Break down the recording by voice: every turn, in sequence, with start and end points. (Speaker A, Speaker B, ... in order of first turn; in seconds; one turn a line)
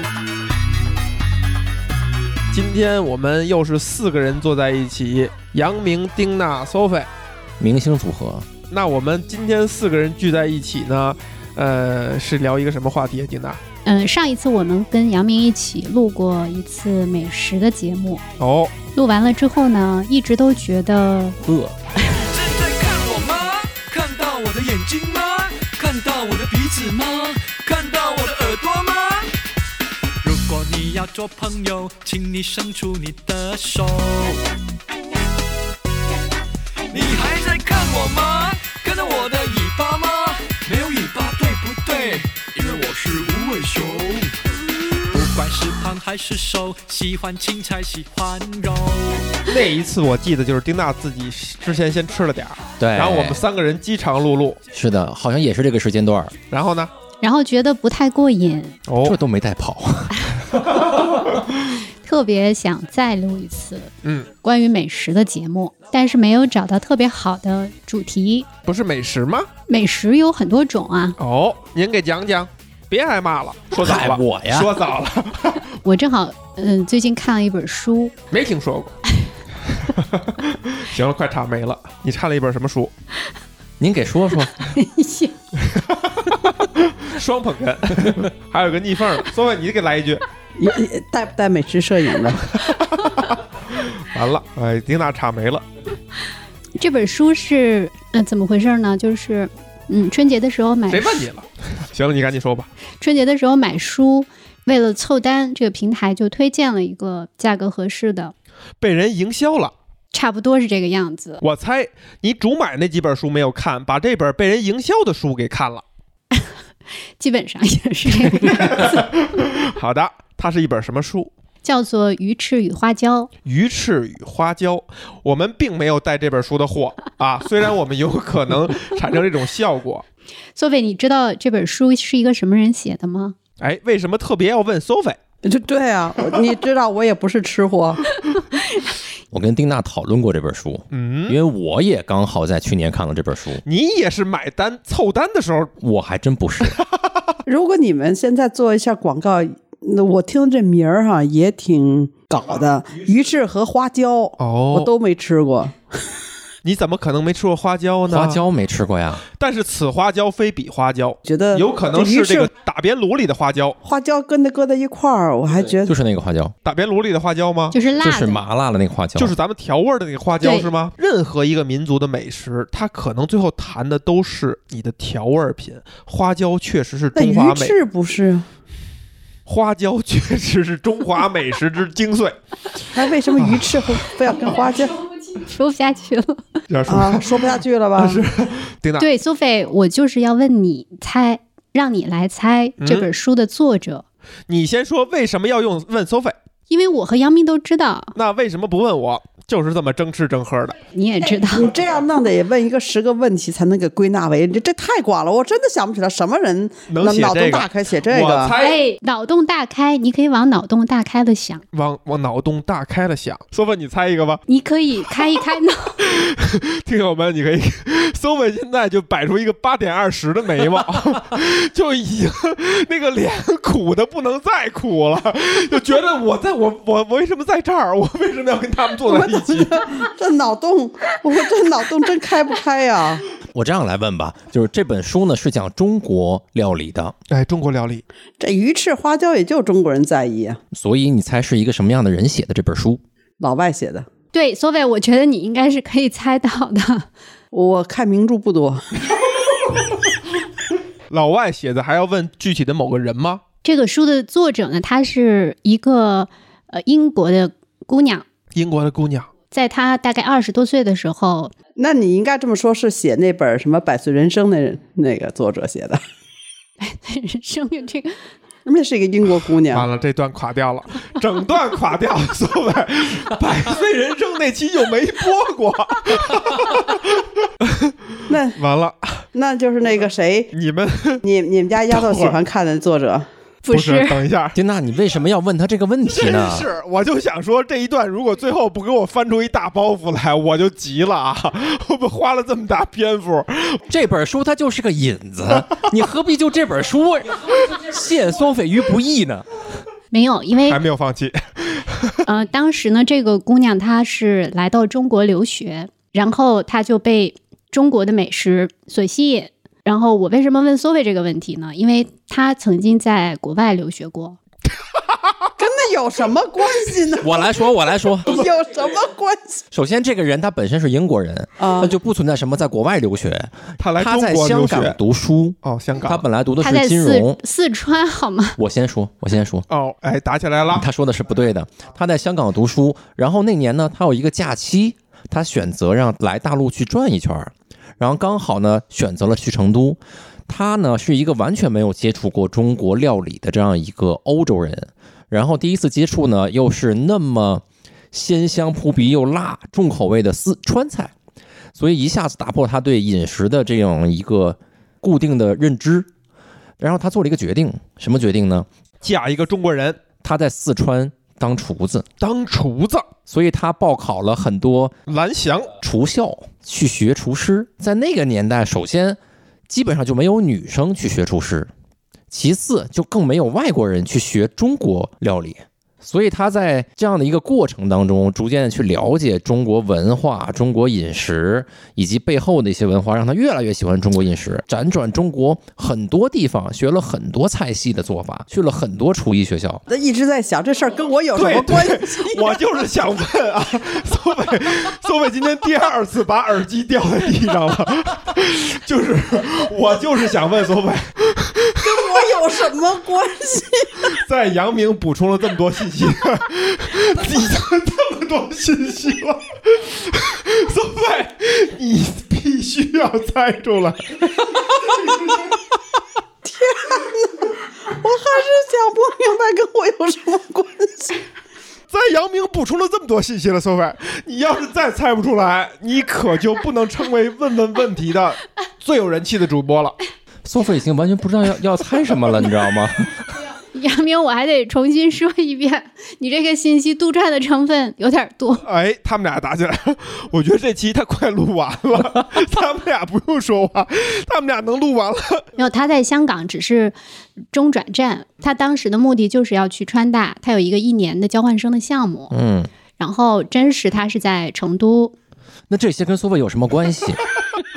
Speaker A: 2.5-7.1
Speaker B: 7.6-8.5
Speaker A: 8.7-13.6
Speaker C: 13.8-18.2
Speaker A: 18.4-18.7
Speaker C: 18.9-21.4
Speaker B: 21.4-21.7
Speaker D: 22.1-29.3
Speaker D: 30.2-34.4
Speaker D: 36.9-44.4
Speaker D: 45.1-49.3
Speaker A: 49.5-54.6
Speaker B: 52.8-53.4
Speaker B: 54.7-56.3
Speaker A: 56.5-56.9
Speaker C: 57.2-58.8
Speaker A: 58.9-59.2
Speaker B: 59.0-60.7
Speaker C: 62.0-63.9
Speaker C: 64.4-68.5
Speaker A: 68.6-69.5
Speaker C: 69.7-71.2
Speaker A: 71.2-75.6
Speaker B: 73.8-74.7
Speaker C: 75.8-78.1
Speaker A: 78.3-78.9
Speaker A: 79.8-82.9
Speaker B: 83.8-84.7
Speaker C: 84.6-85.3
Speaker A: 85.6-90.2
Speaker E: 90.6-92.6
Speaker A: 92.6-95.6
Speaker C: 96.8-101.3
Speaker A: 100.9-102.7
Speaker C: 103.0-108.3
Speaker A: 108.8-109.7
Speaker C: 110.1-111.4
Speaker A: 111.4-115.8
Speaker C: 117.2-119.0
Speaker A: 118.4-121.3
Speaker C: 121.6-123.3
Speaker A: 123.4-130.0
Speaker C: 130.6-133.3
Speaker A: 133.6-135.2
Speaker E: 135.4-138.2
Speaker C: 138.3-138.9
Speaker B: 139.3-143.6
Speaker A: 140.9-141.4
Speaker A: 143.7-145.7
Speaker B: 145.8-146.8
Speaker E: 147.4-156.1
Speaker A: 154.4-154.9
Speaker A: 156.6-158.4
Speaker B: 158.1-159.2
Speaker A: 159.3-163.8
Speaker E: 161.2-162.5
Speaker E: 163.8-165.9
Speaker B: 165.8-166.5
Speaker A: 166.6-167.7
Speaker C: 167.7-168.4
Speaker B: 168.0-169.3
Speaker A: 169.2-177.8
Speaker C: 170.4-170.7
Speaker E: 177.1-178.5
Speaker A: 179.4-182.3
Speaker E: 182.9-185.0
Speaker A: 183.3-184.0
Speaker C: 185.3-186.4
Speaker A: 186.7-189.1
Speaker E: 186.9-188.2
Speaker C: 189.0-194.0
Speaker A: 192.8-193.1
Speaker A: 194.5-196.3
Speaker C: 196.7-198.1
Speaker A: 198.1-200.8
Speaker C: 200.9-201.7
Speaker E: 201.5-208.5
Speaker A: 206.9-208.8
Speaker C: 208.6-211.6
Speaker A: 211.7-214.4
Speaker C: 214.5-216.0
Speaker A: 216.0-229.8
Speaker E: 229.1-233.2
Speaker B: 233.5-237.1
Speaker A: 237.3-238.0
Speaker E: 238.4-240.6
Speaker B: 240.7-243.0
Speaker E: 243.4-244.1
Speaker C: 244.3-247.1
Speaker E: 247.5-248.8
Speaker A: 251.1-253.4
Speaker C: 253.6-258.2
Speaker A: 258.5-259.3
Speaker C: 259.5-261.5
Speaker E: 261.8-266.0
Speaker C: 266.8-268.2
Speaker E: 268.6-269.9
Speaker A: 269.7-279.2
Speaker E: 278.3-278.6
Speaker E: 279.3-280.5
Speaker A: 280.5-281.2
Speaker E: 281.2-283.3
Speaker A: 281.9-282.4
Speaker C: 283.6-284.2
Speaker A: 283.7-284.6
Speaker B: 284.5-286.7
Speaker A: 286.1-293.8
Speaker B: 293.9-299.4
Speaker C: 300.1-300.8
Speaker A: 300.7-302.2
Speaker C: 302.2-314.4
Speaker E: 315.6-317.5
Speaker B: 317.2-318.5
Speaker E: 318.2-319.6
Speaker B: 319.7-327.4
Speaker E: 321.6-321.9
Speaker A: 323.8-325.0
Speaker A: 325.6-326.2
Speaker C: 326.6-328.6
Speaker B: 328.6-329.6
Speaker A: 329.7-330.9
Speaker B: 330.7-351.1
Speaker B: 351.7-356.1
Speaker B: 356.8-358.7
Speaker A: 359.0-360.0
Speaker B: 360.2-362.1
Speaker A: 362.2-363.1
Speaker B: 363.3-364.9
Speaker A: 365.1-365.7
Speaker B: 365.8-371.7
Speaker B: 372.3-389.8
Speaker E: 389.9-392.6
Speaker A: 391.3-402.2
Speaker E: 401.8-404.1
Speaker A: 404.1-415.4
Speaker E: 416.4-421.2
Speaker A: 421.9-429.9
Speaker B: 430.4-433.3
Speaker C: 433.7-438.6
Speaker A: 438.6-445.4
Speaker C: 445.6-446.9
Speaker C: 447.5-452.3
Speaker B: 452.3-452.7
Speaker C: 453.0-455.1
Speaker B: 455.7-457.2